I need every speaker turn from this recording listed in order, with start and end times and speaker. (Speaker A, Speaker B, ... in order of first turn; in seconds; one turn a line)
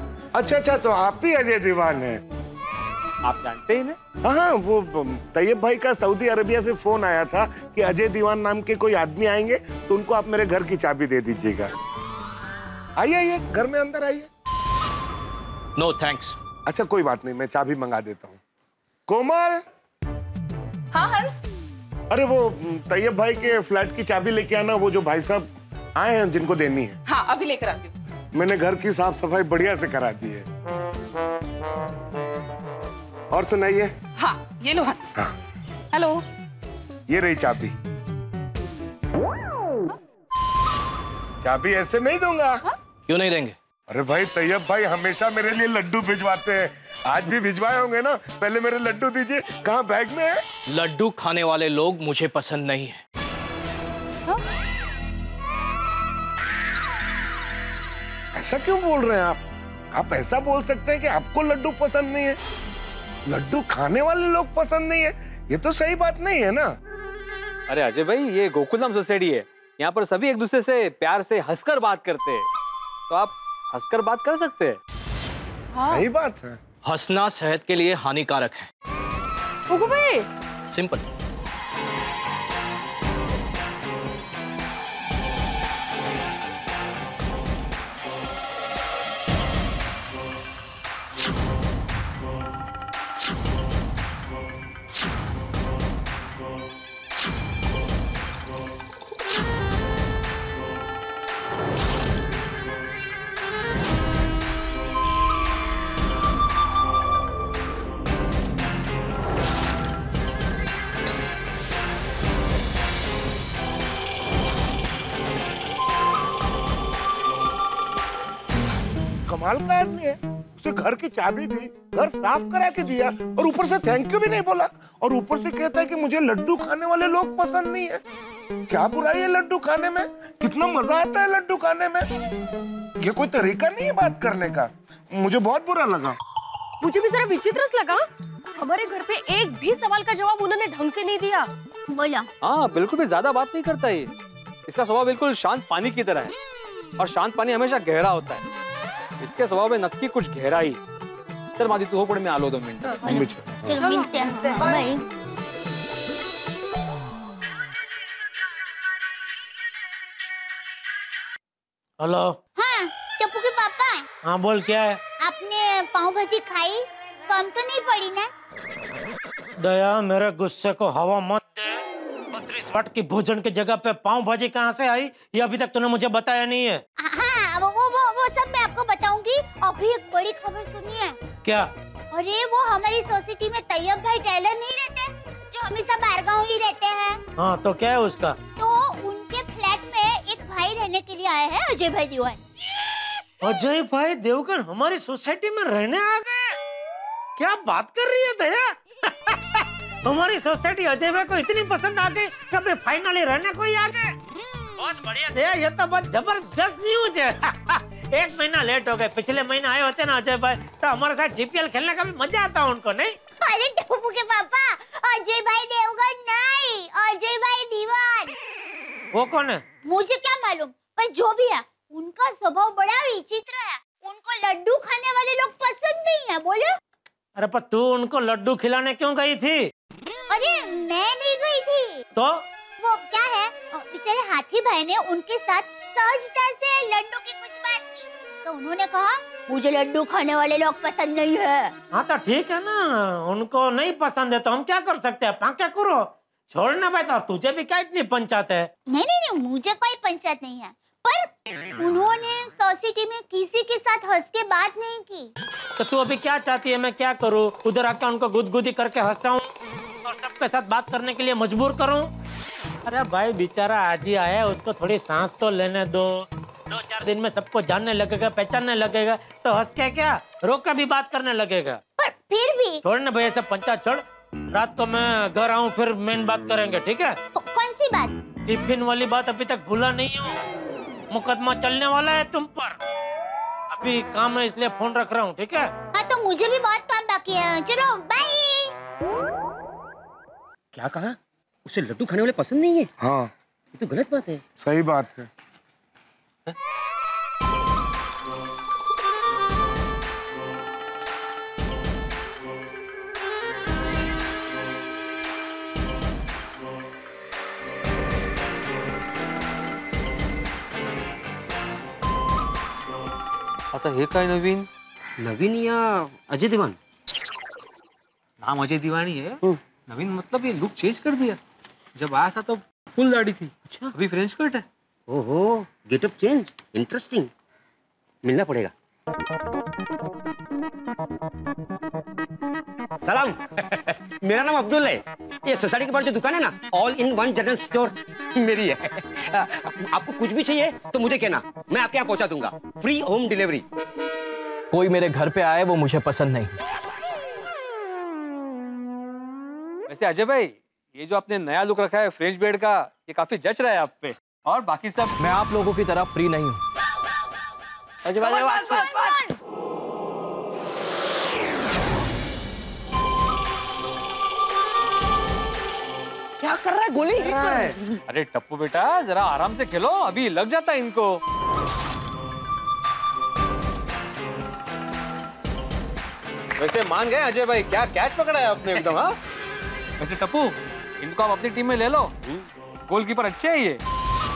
Speaker A: 0.3-2.2
Speaker B: 3.2-4.0
Speaker A: 4.2-11.7
Speaker A: 13.0-14.3
Speaker C: 15.8-16.4
Speaker A: 16.7-18.4
Speaker A: 19.1-19.6
Speaker D: 20.9-21.3
Speaker A: 22.1-27.0
Speaker D: 27.1-27.9
Speaker A: 28.3-30.5
Speaker A: 33.3-33.9
Speaker D: 34.2-35.2
Speaker D: 35.9-36.2
Speaker A: 37.1-37.7
Speaker A: 41.4-42.6
Speaker C: 43.1-43.6
Speaker A: 43.9-50.4
Speaker C: 50.7-53.0
Speaker A: 58.4-59.4
Speaker A: 59.9-62.4
Speaker A: 63.3-66.8
Speaker B: 67.7-72.5
Speaker B: 73.1-74.8
Speaker A: 75.8-76.6
Speaker C: 76.8-78.7
Speaker E: 79.7-80.3
Speaker C: 80.7-81.0
Speaker A: 119.3-128.0
Speaker A: 128.7-132.1
Speaker A: 133.0-136.2
Speaker E: 136.8-138.1
Speaker E: 138.6-141.5
Speaker F: 141.9-142.2
Speaker B: 142.4-144.1
Speaker B: 144.7-146.3
Speaker B: 147.0-148.4
Speaker B: 149.2-150.8
Speaker B: 151.6-153.0
Speaker A: 153.0-153.8
Speaker F: 153.1-155.0
Speaker G: 162.0-162.3
Speaker F: 162.6-164.1
Speaker G: 164.3-165.0
Speaker F: 165.2-168.3
Speaker G: 169.6-176.8
Speaker F: 177.0-181.2
Speaker F: 182.1-187.2
Speaker G: 187.4-188.4
Speaker F: 188.6-192.4
Speaker G: 193.4-196.5
Speaker G: 197.4-204.1
Speaker G: 204.8-213.2
Speaker F: 213.4-218.3
Speaker G: 219.2-219.6
Speaker F: 219.9-226.7
Speaker G: 227.4-229.7
Speaker F: 230.3-232.0
Speaker G: 232.2-232.4
Speaker F: 232.8-241.7
Speaker G: 241.9-248.7
Speaker F: 248.9-255.3
Speaker G: 255.8-259.5
Speaker G: 260.0-262.1
Speaker G: 262.9-271.8
Speaker F: 272.0-272.8
Speaker G: 272.8-274.0
Speaker G: 274.5-277.2
Speaker F: 277.4-278.2
Speaker G: 278.5-280.4
Speaker G: 281.1-282.8
Speaker G: 283.7-285.7
Speaker F: 285.9-288.7
Speaker H: 290.7-292.9
Speaker A: 293.0-293.3
Speaker H: 293.8-294.4
Speaker A: 294.6-295.3
Speaker B: 313.8-314.6
Speaker H: 315.2-316.8
Speaker B: 318.4-319.4
Speaker B: 319.9-321.4
Speaker B: 322.0-324.6
Speaker H: 325.1-327.3
Speaker H: 328.2-328.7
Speaker H: 333.0-343.6
Speaker C: 344.7-346.6
Speaker B: 349.9-355.1
Speaker C: 355.2-356.6
Speaker I: 358.2-359.2
Speaker B: 358.2-358.6
Speaker D: 358.2-359.2
Speaker I: 366.4-367.8
Speaker B: 367.2-371.2
Speaker B: 376.6-379.2
Speaker B: 380.0-382.4
Speaker B: 382.9-383.8